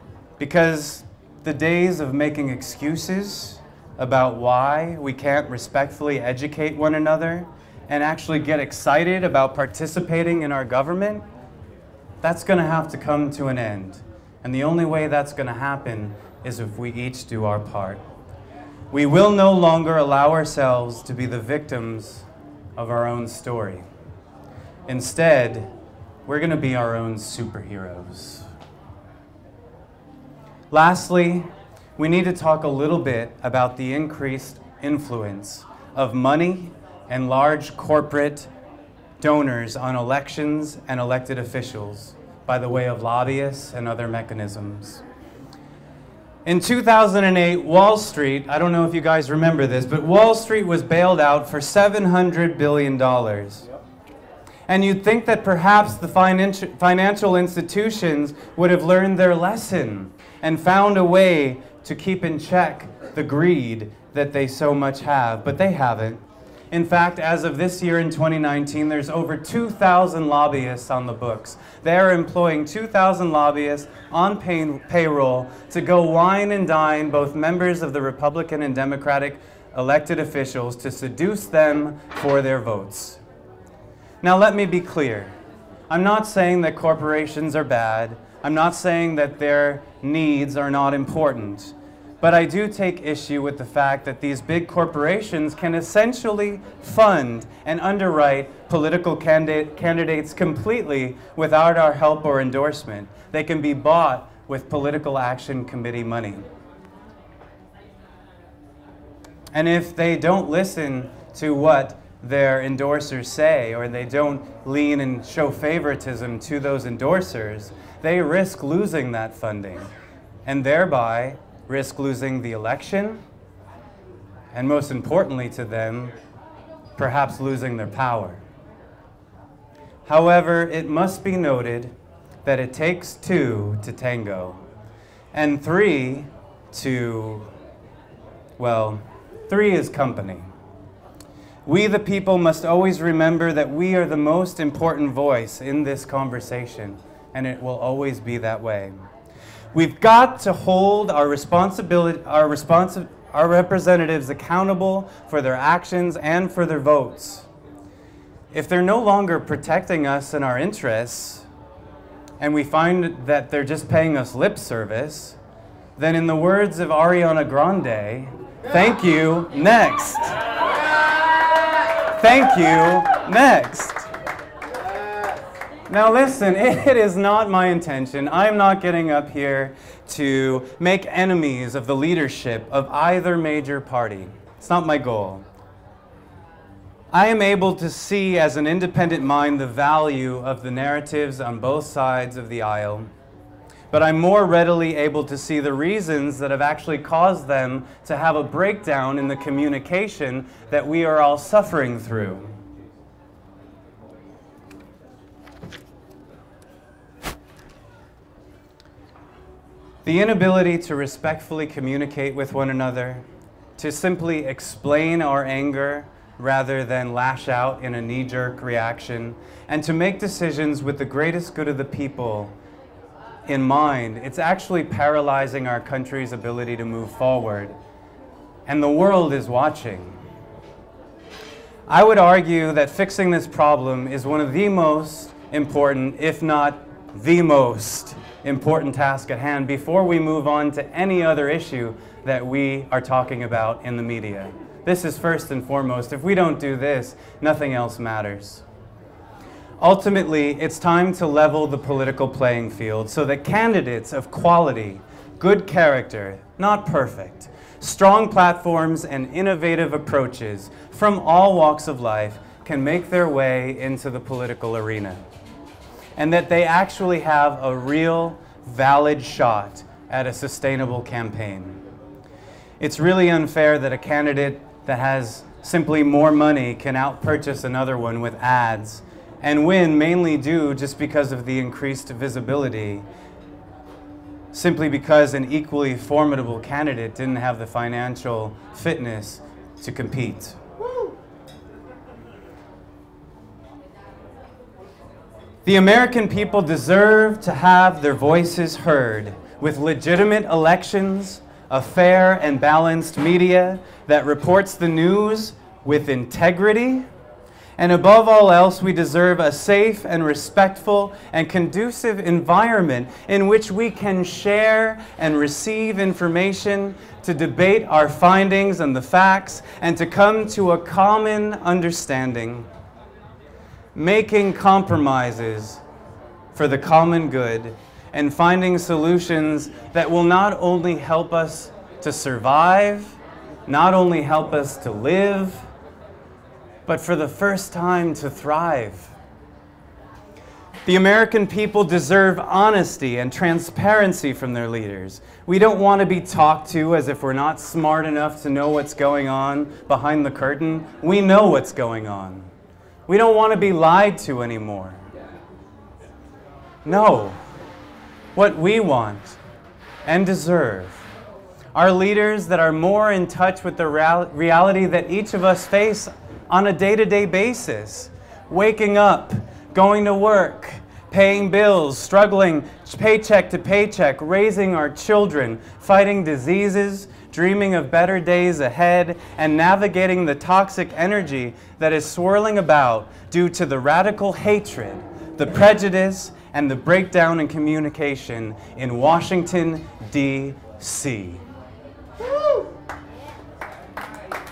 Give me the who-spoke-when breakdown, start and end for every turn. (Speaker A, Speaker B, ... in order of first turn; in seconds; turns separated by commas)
Speaker A: 0.4-11.2, Speaker A: 12.2-18.0, Speaker A: 18.9-23.9, Speaker A: 24.9-25.7, Speaker A: 26.2-28.4, Speaker A: 30.7-38.5, Speaker A: 39.2-45.0, Speaker A: 46.4-53.7, Speaker A: 54.7-83.2, Speaker A: 84.2-85.3, Speaker A: 85.9-106.4, Speaker A: 109.5-119.9, Speaker A: 120.5-123.2, Speaker A: 124.5-126.2, Speaker A: 127.0-128.4, Speaker A: 130.1-131.9, Speaker A: 132.4-134.6, Speaker A: 135.3-137.5, Speaker A: 138.6-140.4, Speaker A: 141.7-148.9, Speaker A: 149.7-157.5, Speaker A: 158.5-161.5, Speaker A: 162.4-165.4, Speaker A: 166.0-170.3, Speaker A: 172.1-174.1, Speaker A: 175.9-185.4, Speaker A: 187.1-193.1, Speaker A: 193.9-202.6, Speaker A: 210.0-213.2, Speaker A: 213.8-222.5, Speaker A: 223.5-227.7, Speaker A: 228.7-230.2, Speaker A: 231.9-248.6, Speaker A: 249.8-265.2, Speaker A: 266.2-271.8, Speaker A: 272.8-283.0, Speaker A: 284.5-290.6, Speaker A: 295.6-307.0, Speaker A: 307.8-322.7, Speaker A: 323.9-325.8, Speaker A: 326.5-335.7, Speaker A: 336.9-339.1, Speaker A: 340.9-352.5, Speaker A: 353.1-355.0, Speaker A: 356.8-357.4, Speaker A: 358.3-359.4, Speaker A: 360.0-361.1, Speaker A: 361.7-391.4